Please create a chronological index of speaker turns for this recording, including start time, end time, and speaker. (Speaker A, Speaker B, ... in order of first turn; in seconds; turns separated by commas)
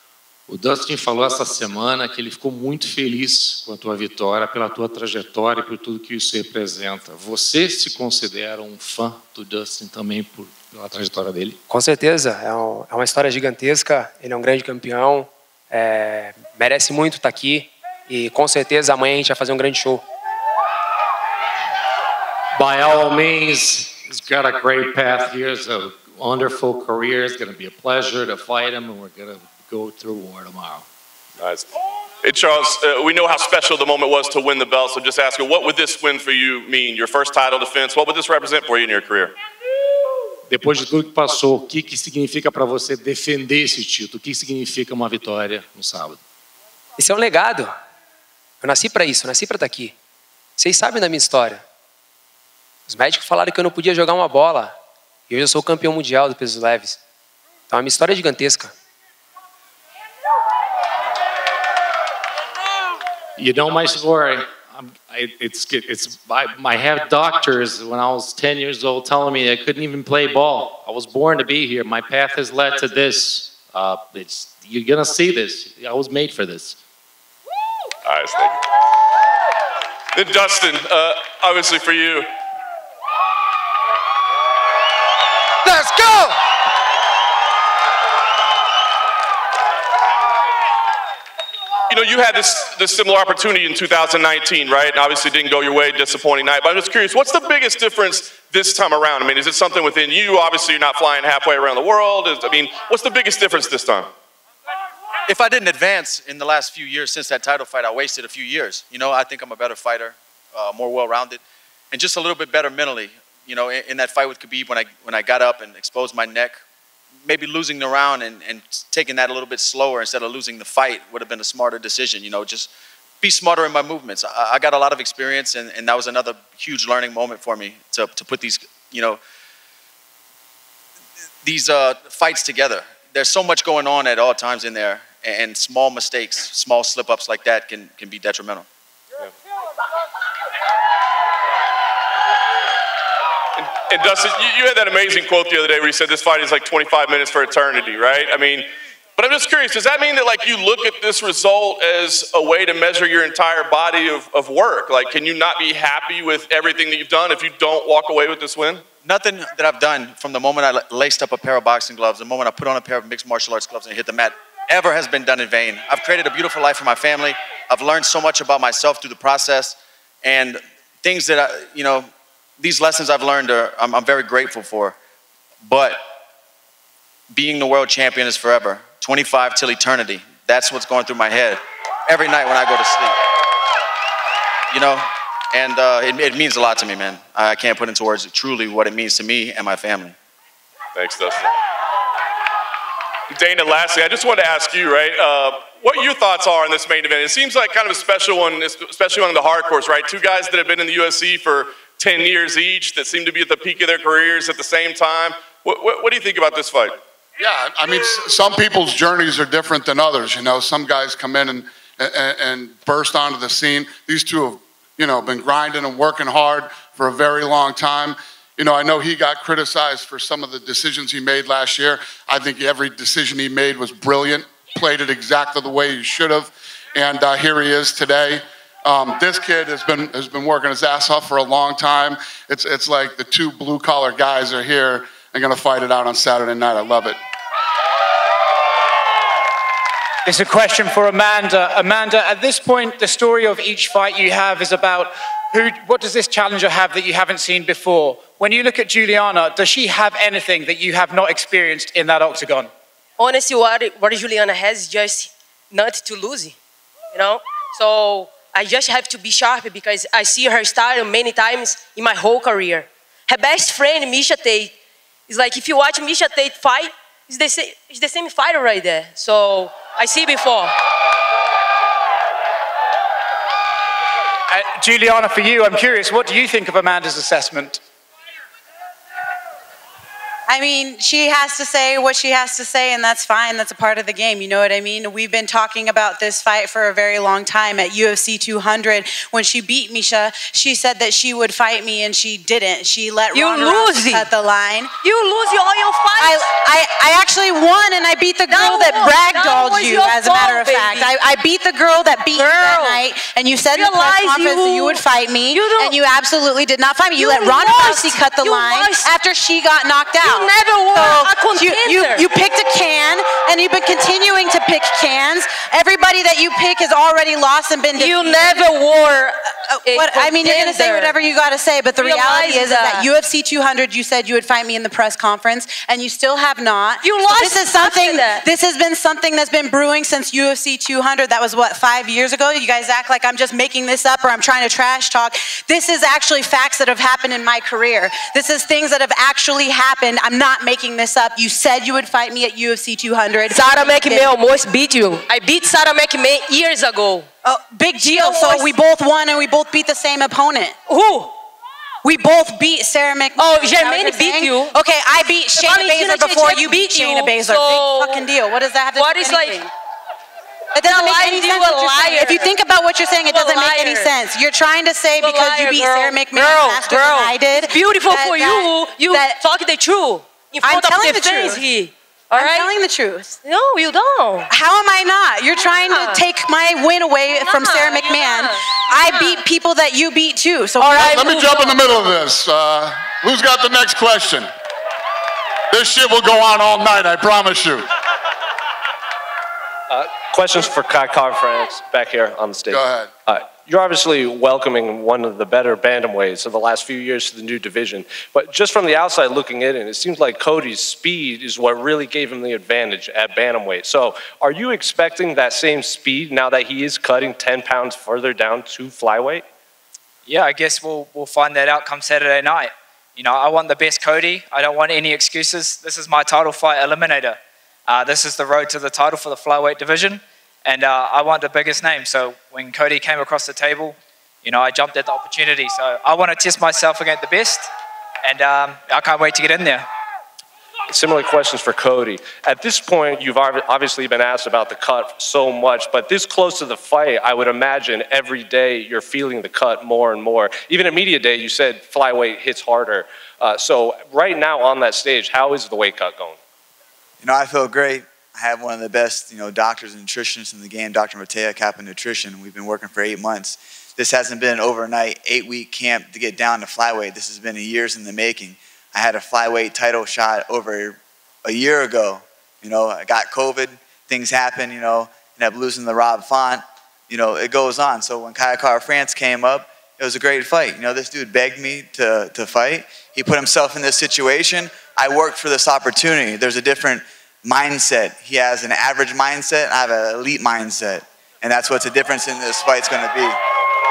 Speaker A: 0.5-11.6, Speaker B: 11.7-20.0, Speaker A: 22.6-30.8, Speaker C: 31.4-31.7, Speaker C: 32.2-39.3, Speaker A: 40.5-46.2, Speaker B: 47.0-47.8, Speaker B: 48.6-49.9, Speaker B: 50.6-51.6, Speaker B: 52.9-54.8, Speaker B: 55.3-57.0, Speaker B: 57.7-58.7, Speaker A: 63.4-76.8, Speaker C: 78.0-78.6, Speaker C: 80.1-82.3, Speaker A: 85.6-86.3, Speaker C: 91.9-104.1, Speaker D: 105.3-111.4, Speaker D: 111.9-116.6, Speaker D: 117.2-122.7, Speaker D: 123.2-129.2, Speaker D: 131.4-138.7, Speaker C: 143.6-158.8, Speaker D: 159.0-172.1, Speaker D: 172.6-174.9, Speaker D: 175.6-176.0, Speaker D: 177.3-183.2, Speaker D: 184.7-190.2, Speaker C: 190.9-191.5, Speaker C: 193.3-207.0, Speaker E: 207.4-237.2, Speaker F: 240.2-252.7, Speaker G: 253.2-256.6, Speaker G: 257.1-264.7, Speaker G: 265.3-270.7, Speaker F: 274.5-277.8, Speaker H: 280.5-294.9, Speaker G: 293.3-294.3, Speaker G: 295.0-296.5, Speaker H: 296.2-318.6, Speaker G: 298.5-301.1, Speaker G: 302.3-303.0, Speaker G: 303.7-306.0, Speaker G: 307.2-309.1, Speaker G: 310.2-312.2, Speaker G: 318.0-319.3, Speaker H: 319.6-344.3, Speaker G: 319.8-321.1, Speaker G: 322.0-323.1, Speaker G: 327.0-328.4, Speaker G: 343.5-347.3, Speaker H: 347.4-350.8, Speaker G: 348.0-348.7, Speaker G: 350.9-351.3, Speaker H: 352.0-359.7, Speaker G: 353.4-354.7, Speaker G: 355.6-358.2, Speaker G: 358.9-359.7, Speaker H: 360.7-369.4, Speaker G: 360.8-362.5, Speaker G: 363.3-364.1, Speaker G: 365.2-372.7, Speaker H: 370.6-371.6, Speaker H: 372.3-373.3, Speaker G: 373.4-374.5, Speaker H: 374.5-381.4, Speaker G: 375.7-376.2, Speaker G: 377.4-379.4, Speaker G: 380.8-381.8, Speaker E: 380.9-384.5, Speaker E: 385.7-387.9, Speaker I: 389.9-409.4, Speaker E: 392.7-393.1, Speaker J: 410.2-427.7, Speaker J: 428.2-429.9, Speaker I: 430.9-446.4, Speaker K: 447.2-483.4